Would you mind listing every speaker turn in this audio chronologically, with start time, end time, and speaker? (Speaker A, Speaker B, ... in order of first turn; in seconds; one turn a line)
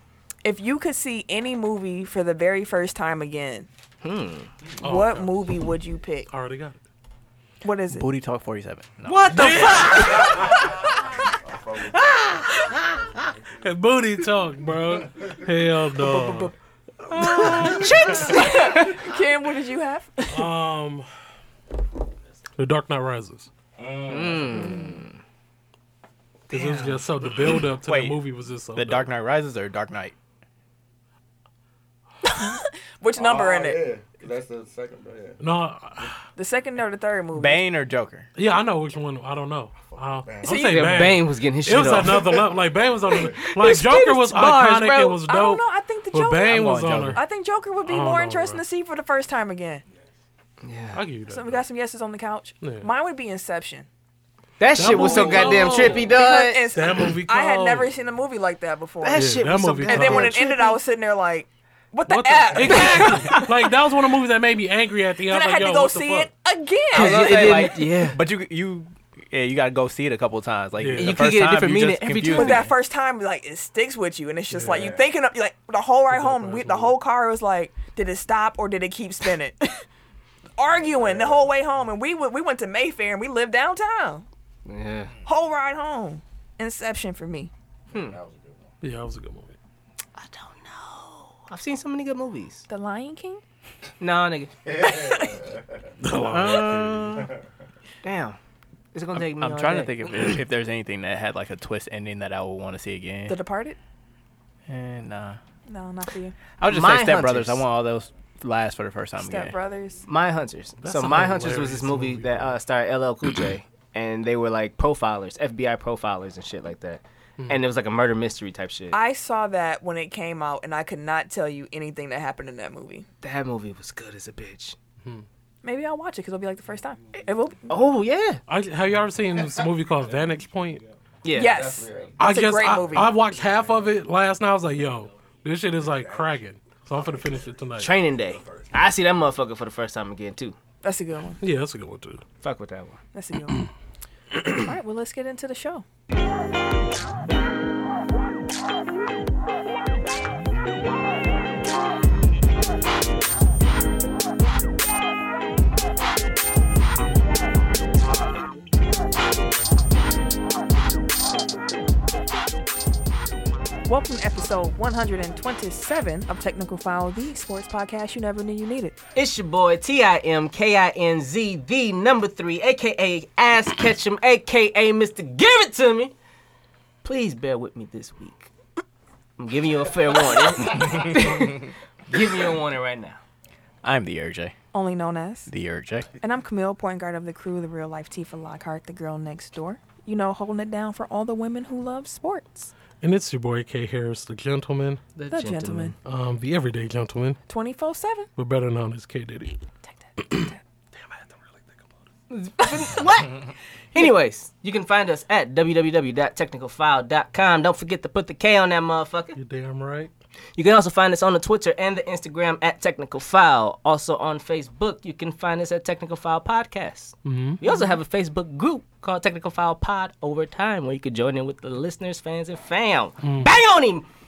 Speaker A: 0.4-3.7
Speaker B: 4.0-4.5
Speaker C: 4.8-5.5
Speaker A: 4.8-6.3
Speaker C: 6.3-6.8
Speaker A: 7.6-8.1
Speaker D: 7.9-9.7
Speaker B: 9.0-10.7
Speaker C: 9.3-10.4
Speaker E: 11.6-11.9
Speaker C: 13.6-16.5
Speaker A: 16.2-16.5
Speaker B: 17.1-19.0
Speaker C: 17.4-17.7
Speaker A: 17.4-20.5
Speaker C: 20.3-21.1
Speaker C: 22.6-23.5
Speaker E: 23.8-25.0
Speaker B: 24.1-25.1
Speaker B: 26.5-27.4
Speaker C: 26.5-29.1
Speaker D: 27.8-28.2
Speaker D: 28.8-30.1
Speaker A: 32.2-33.9
Speaker E: 33.1-35.4
Speaker C: 35.4-36.1
Speaker A: 36.4-37.6
Speaker D: 37.3-38.3
Speaker C: 38.4-47.2
Speaker E: 39.9-40.6
Speaker B: 40.4-42.5
Speaker B: 43.1-45.2
Speaker A: 45.3-49.8
Speaker D: 46.5-47.2
Speaker C: 47.8-48.6
Speaker B: 50.6-51.0
Speaker C: 50.9-51.6
Speaker A: 51.3-53.9
Speaker C: 52.6-52.9
Speaker B: 54.6-56.7
Speaker C: 54.7-56.2
Speaker A: 55.0-59.3
Speaker C: 56.7-57.9
Speaker B: 59.0-60.8
Speaker C: 59.1-60.5
Speaker A: 59.8-63.5
Speaker C: 62.0-66.3
Speaker B: 62.6-63.4
Speaker A: 65.3-67.7
Speaker B: 66.9-68.2
Speaker D: 66.9-72.7
Speaker C: 70.8-71.2
Speaker B: 70.9-72.7
Speaker A: 72.3-79.8
Speaker C: 74.5-74.9
Speaker E: 74.7-75.0
Speaker C: 76.3-76.8
Speaker A: 80.6-84.2
Speaker E: 80.9-81.5
Speaker B: 84.7-85.1
Speaker A: 85.2-87.5
Speaker B: 87.9-88.2
Speaker E: 87.9-88.8
Speaker C: 88.8-89.5
Speaker B: 90.2-92.7
Speaker A: 92.7-93.4
Speaker B: 94.0-94.5
Speaker E: 94.7-95.7
Speaker C: 96.0-97.2
Speaker B: 96.3-97.3
Speaker B: 98.0-98.4
Speaker B: 98.9-100.4
Speaker D: 99.1-103.4
Speaker A: 103.3-103.8
Speaker D: 104.7-105.4
Speaker A: 105.7-106.3
Speaker D: 106.6-109.5
Speaker B: 106.7-107.6
Speaker A: 109.2-110.0
Speaker B: 110.1-119.0
Speaker C: 110.8-112.5
Speaker A: 118.9-123.0
Speaker B: 123.2-124.8
Speaker A: 125.6-127.7
Speaker B: 127.7-128.4
Speaker C: 128.5-130.8
Speaker B: 131.2-131.6
Speaker A: 131.3-133.2
Speaker E: 131.4-132.4
Speaker C: 132.2-137.9
Speaker E: 135.8-138.8
Speaker B: 137.8-140.6
Speaker A: 140.8-141.4
Speaker C: 141.4-142.2
Speaker B: 142.4-143.0
Speaker A: 143.1-143.6
Speaker A: 144.5-145.8
Speaker A: 163.9-169.0
Speaker B: 169.1-176.1
Speaker B: 177.0-178.5
Speaker B: 179.4-183.2
Speaker D: 183.8-184.5
Speaker A: 184.7-185.5
Speaker D: 185.5-186.1
Speaker A: 186.2-192.7
Speaker C: 193.0-195.0
Speaker B: 195.2-195.9
Speaker A: 195.3-195.9
Speaker C: 196.1-197.4
Speaker A: 197.5-198.3
Speaker C: 198.4-199.6
Speaker C: 200.2-200.5
Speaker A: 200.2-200.6
Speaker B: 202.3-203.4
Speaker B: 203.9-209.3
Speaker C: 209.3-210.1
Speaker B: 210.6-224.1
Speaker C: 217.2-217.6
Speaker C: 223.2-223.5